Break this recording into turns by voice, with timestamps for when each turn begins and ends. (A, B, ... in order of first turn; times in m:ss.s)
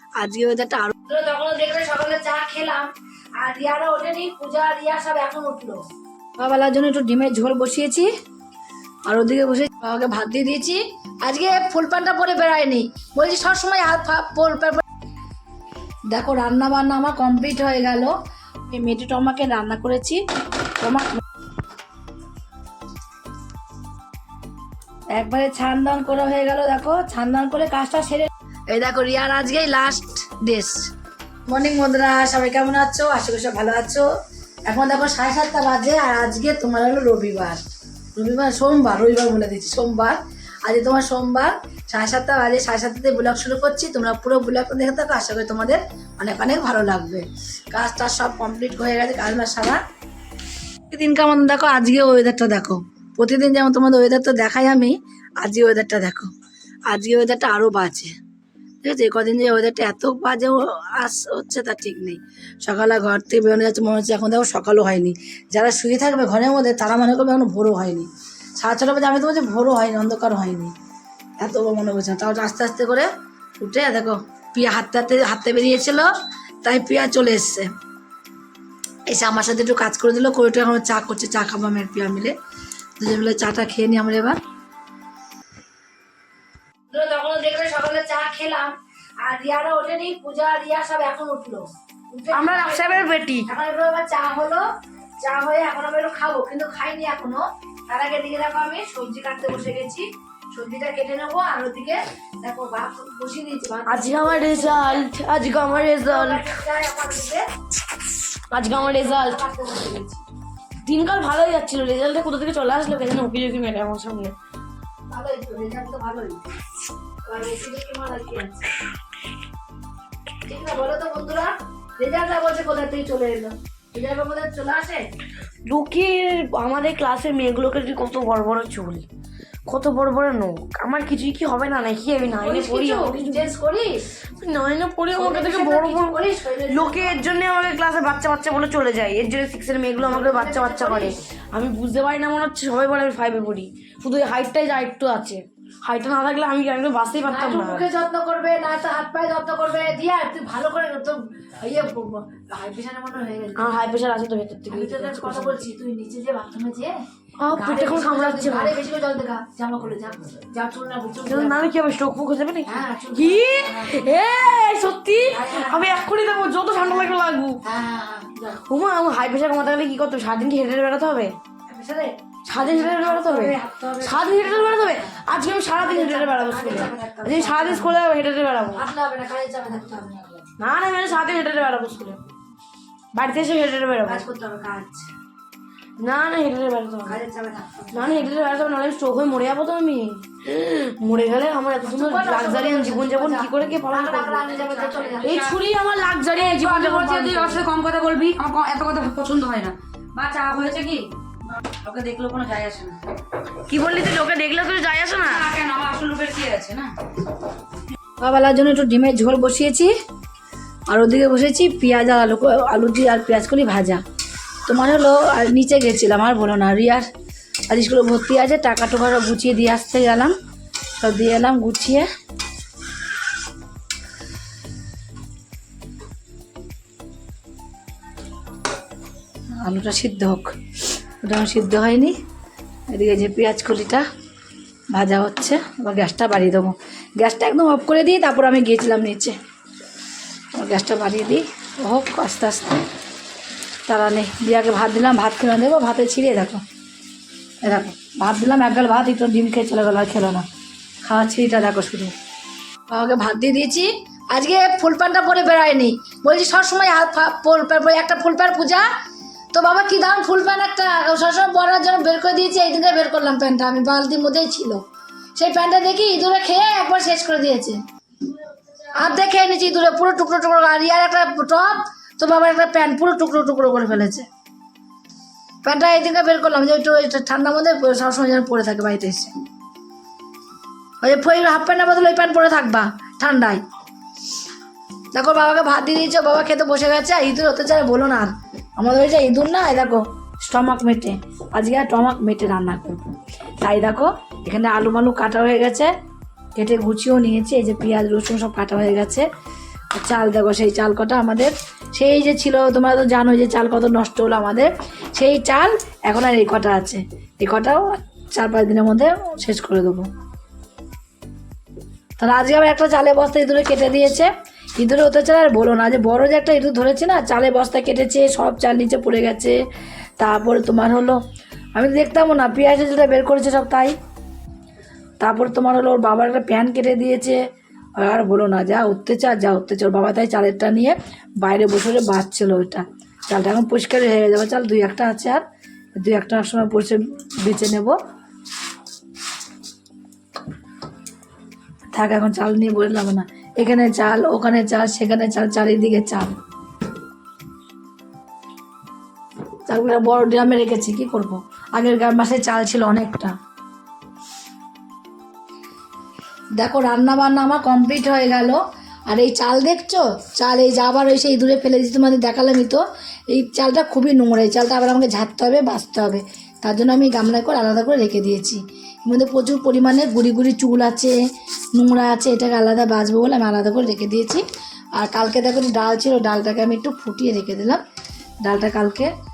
0:00.2-0:05.8 A
0:06.4-0:08.1 A
0:09.1-0:14.8 A
0:16.1-0:18.2 A
0:18.7-0:20.2 A
0:20.8-0:21.2 A
0:25.1-0:30.9 A
0:31.5-0:34.1 A
0:34.7-0:37.6 A
0:38.2-0:49.8 A
0:50.9-0:56.3 A
0:56.9-0:58.1 A
0:58.8-1:10.7 A
1:11.4-1:16.1 A
1:16.6-1:17.7 A
1:19.1-1:22.3 A
1:23.0-1:24.4 A
1:26.9-1:34.7 A
1:32.3-1:33.5 B
1:35.2-1:45.1 A
1:43.9-1:46.6 B
1:45.7-1:47.4 A
1:48.5-1:49.4 B
1:48.6-1:50.2 A
1:50.8-1:54.4 B
1:55.1-1:56.4 A
1:57.3-1:58.7 A
2:00.5-2:05.0 A
2:05.7-2:09.1 B
2:09.7-2:13.6 B
2:12.4-2:14.0 A
2:14.3-2:27.9 B
2:15.1-2:17.2 A
2:20.1-2:21.1 A
2:27.3-2:33.9 A
2:33.6-2:35.7 B
2:34.7-2:37.0 A
2:37.4-2:38.8 B
2:37.5-2:41.7 A
2:41.3-2:47.6 B
2:42.7-2:44.1 A
2:45.3-2:46.0 A
2:47.6-2:48.6 A
2:48.6-2:51.4 B
2:51.7-2:58.0 A
2:52.5-2:58.8 B
2:58.7-3:00.5 A
3:00.6-3:02.2 B
3:03.1-3:04.3 B
3:04.1-3:05.1 A
3:06.0-3:07.2 B
3:07.1-3:08.2 A
3:07.9-3:17.7 B
3:11.8-3:15.4 A
3:15.2-3:15.6 C
3:16.6-3:21.1 C
3:21.8-3:23.0 C
3:23.6-3:25.6 B
3:25.4-3:26.9 C
3:28.2-3:29.9 A
3:30.9-3:34.0 A
3:34.7-3:37.1 A
3:37.7-3:40.4 A
3:41.0-3:42.1 A
3:49.6-3:50.6 A
3:51.2-3:52.2 A
3:52.9-3:54.0 A
3:54.9-3:59.4 A
4:00.6-4:02.8 A
4:03.9-4:06.6 A
4:07.6-4:10.5 A
4:11.1-4:12.1 A
4:12.9-4:18.9 A
4:19.5-4:24.8 A
4:25.4-4:27.8 A
4:29.0-4:34.3 A
4:35.6-4:39.3 A
4:41.0-4:43.6 A
4:45.1-4:53.1 A
4:53.6-4:55.9 A
4:56.6-4:59.3 A
4:59.9-5:10.1 A
5:12.2-5:19.6 A
5:20.2-5:21.2 A
5:21.8-5:24.0 A
5:25.2-5:27.4 A
5:28.0-5:35.4 A
5:36.0-5:38.0 A
5:41.9-5:46.3 A
5:49.7-5:53.3 A
5:56.6-6:11.2 A
6:11.8-6:14.4 A
6:15.0-6:17.8 A
6:18.4-6:19.1 A